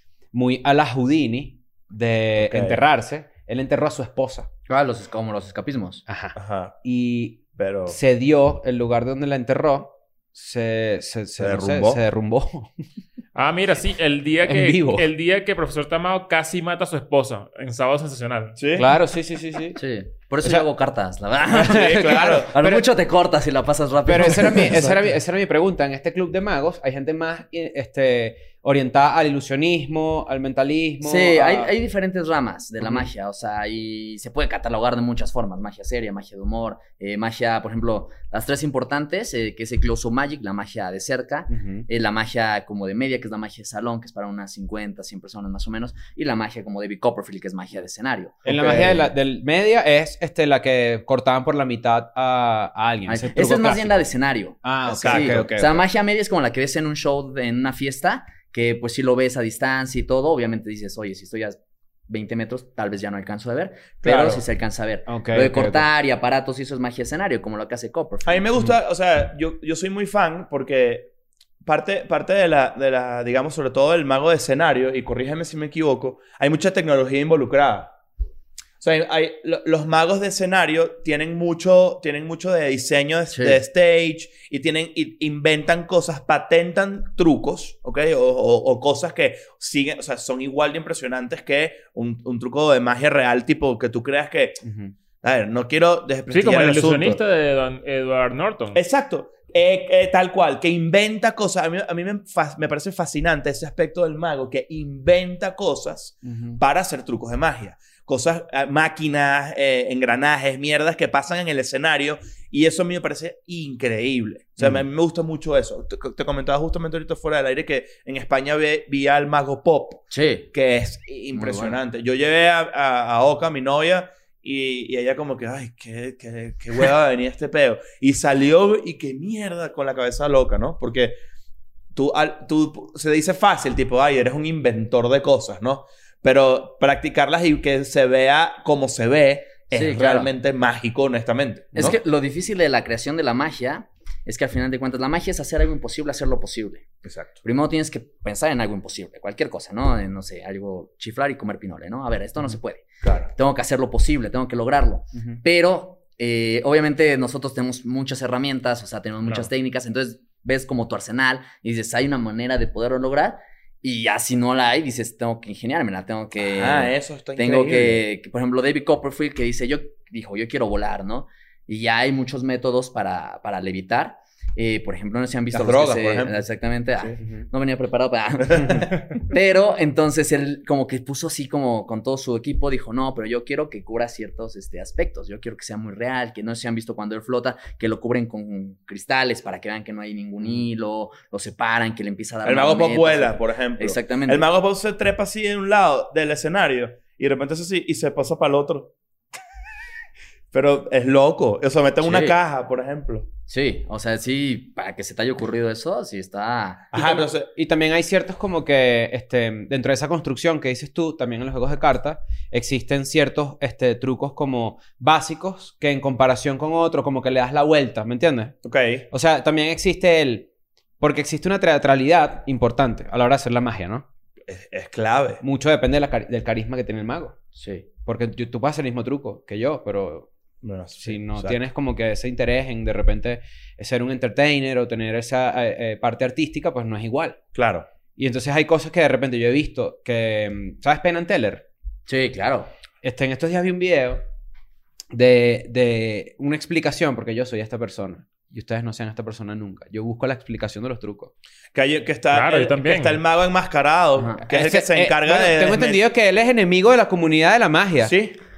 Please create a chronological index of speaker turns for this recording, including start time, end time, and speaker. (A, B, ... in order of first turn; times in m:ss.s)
0:00.3-0:04.5 A
0:02.4-0:02.8 B
0:04.7-0:06.0 C
0:06.1-0:12.7 A
0:06.4-0:06.8 B
0:07.6-0:08.0 B
0:11.4-0:12.0 B
0:13.4-0:18.6 D
0:14.4-0:15.1 A
0:18.6-0:18.9 B
0:18.8-0:19.8 A
0:19.8-0:25.0 C
0:21.6-0:22.9 A
0:21.6-0:22.5 B
0:24.1-0:31.7 A
0:31.0-0:49.0 C
0:41.5-0:41.9 A
0:48.4-0:49.1 B
0:48.5-0:54.0 A
0:53.1-1:08.5 C
0:54.6-0:55.8 A
0:55.0-0:55.4 B
1:04.0-1:04.4 B
1:05.1-1:05.9 A
1:08.2-1:11.1 B
1:11.6-1:17.9 B
1:18.8-1:34.6 B
1:23.3-1:23.6 C
1:34.6-1:34.9 A
1:35.2-1:37.2 B
1:36.3-1:38.8 D
1:38.7-2:11.2 B
1:46.3-1:46.6 A
2:00.1-2:00.5 C
2:01.3-2:01.8 C
2:12.0-2:22.0 B
2:19.7-2:20.3 C
2:21.8-2:26.9 C
2:27.0-2:27.3 B
2:27.4-3:14.5 C
2:33.0-2:33.3 B
2:46.4-2:48.0 B
2:55.5-2:56.4 B
2:58.5-2:58.9 B
3:12.4-3:18.9 B
3:20.5-3:23.3 B
3:22.0-3:22.4 C
3:23.5-3:27.3 C
3:26.9-3:27.5 B
3:27.6-3:38.6 A
3:38.6-3:39.1 B
3:39.1-3:40.5 A
3:41.0-3:44.1 A
3:44.5-3:45.4 B
3:45.4-3:47.4 A
3:47.6-3:47.9 C
3:48.0-3:50.3 A
3:50.6-3:51.6 B
3:51.0-3:57.4 A
3:57.6-3:57.9 B
3:58.2-4:01.7 A
4:02.1-4:02.7 C
4:03.0-4:04.2 A
4:05.1-4:11.3 A
4:11.7-4:16.0 B
4:12.3-4:13.2 D
4:14.2-4:14.4 C
4:14.4-4:18.1 A
4:18.0-4:18.4 B